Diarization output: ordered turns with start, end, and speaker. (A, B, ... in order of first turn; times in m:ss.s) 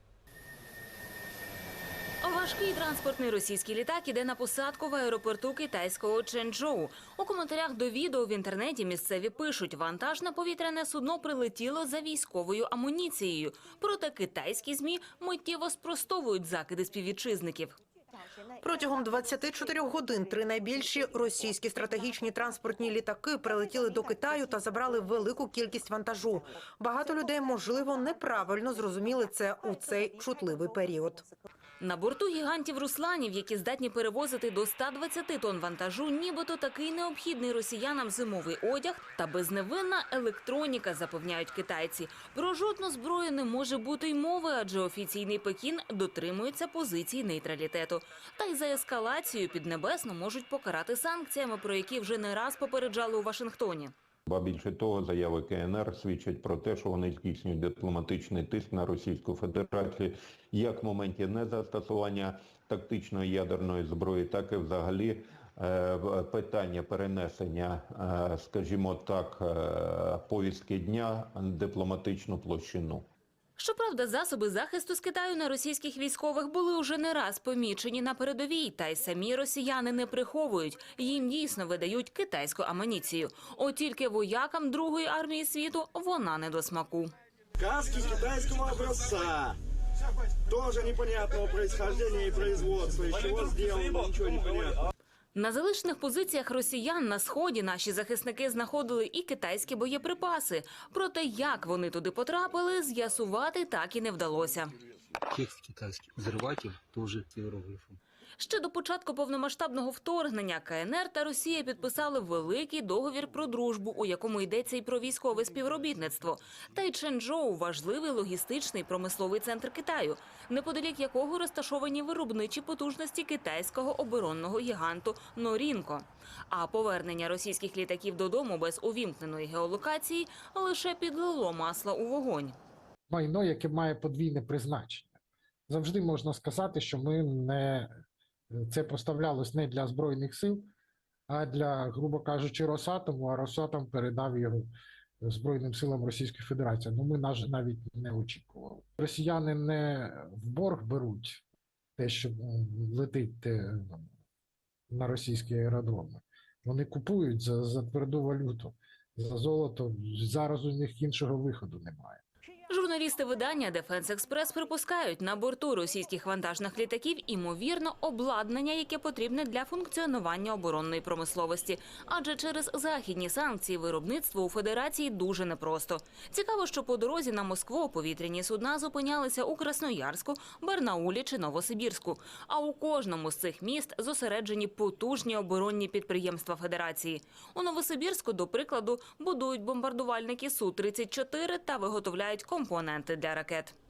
0:02.2-0:17.8 A
0:18.6-0:31.2 B
0:31.8-0:53.9 A
0:54.3-1:13.1 C
1:13.6-1:27.1 A
1:27.6-1:29.6 D
1:30.5-1:34.8 D
1:35.4-1:44.7 A
1:45.3-1:48.0 E
1:48.4-2:12.6 A
2:13.1-2:15.1 F
2:15.7-2:17.9 F
2:18.5-2:20.7 F
2:21.3-2:24.7 F
2:25.2-2:31.4 F
2:32.0-2:34.1 F
2:34.9-2:42.2 F
2:42.7-3:13.8 A